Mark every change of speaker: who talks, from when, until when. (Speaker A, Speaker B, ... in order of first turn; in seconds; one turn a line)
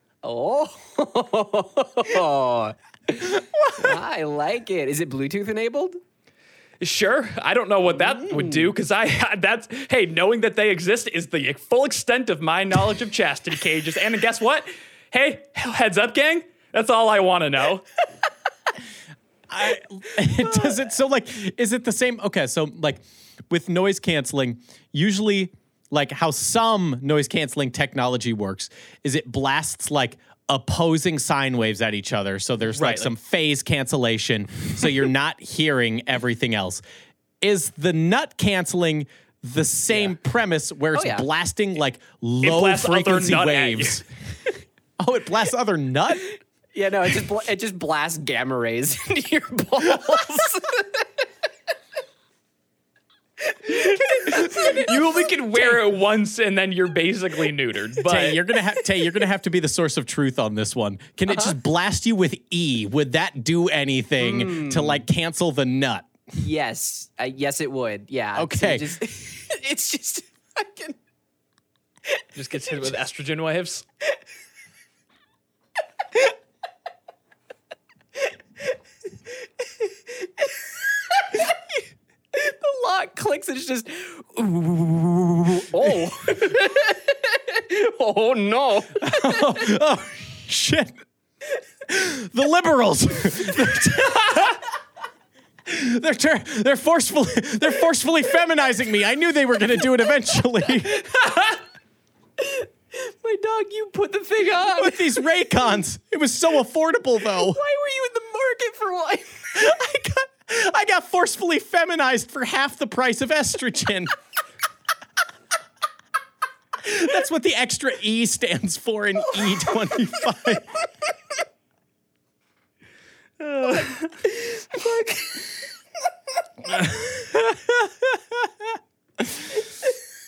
Speaker A: 0.2-6.0
Speaker B: 3.2-4.0
Speaker C: 6.8-17.9
Speaker A: 8.0-8.7
Speaker B: 19.5-36.8
Speaker C: 32.8-33.1
Speaker B: 37.4-44.0
Speaker A: 40.9-41.3
Speaker C: 42.4-44.0
Speaker B: 45.0-46.2
Speaker A: 46.7-51.1
Speaker A: 53.5-55.8
Speaker C: 54.3-58.4
Speaker B: 58.0-66.1
Speaker A: 61.3-61.5
Speaker A: 64.2-65.0
Speaker A: 66.4-71.0
Speaker B: 68.3-68.9
Speaker A: 72.1-72.9
Speaker C: 72.4-73.8
Speaker A: 79.6-89.6
Speaker B: 89.0-91.0
Speaker B: 91.9-94.6
Speaker B: 95.7-101.1
Speaker A: 100.9-101.5
Speaker A: 102.4-105.4
Speaker B: 104.6-107.6
Speaker A: 107.3-109.9
Speaker B: 109.5-114.1
Speaker B: 116.8-120.8
Speaker C: 123.4-124.1
Speaker A: 124.2-125.6
Speaker B: 126.7-129.4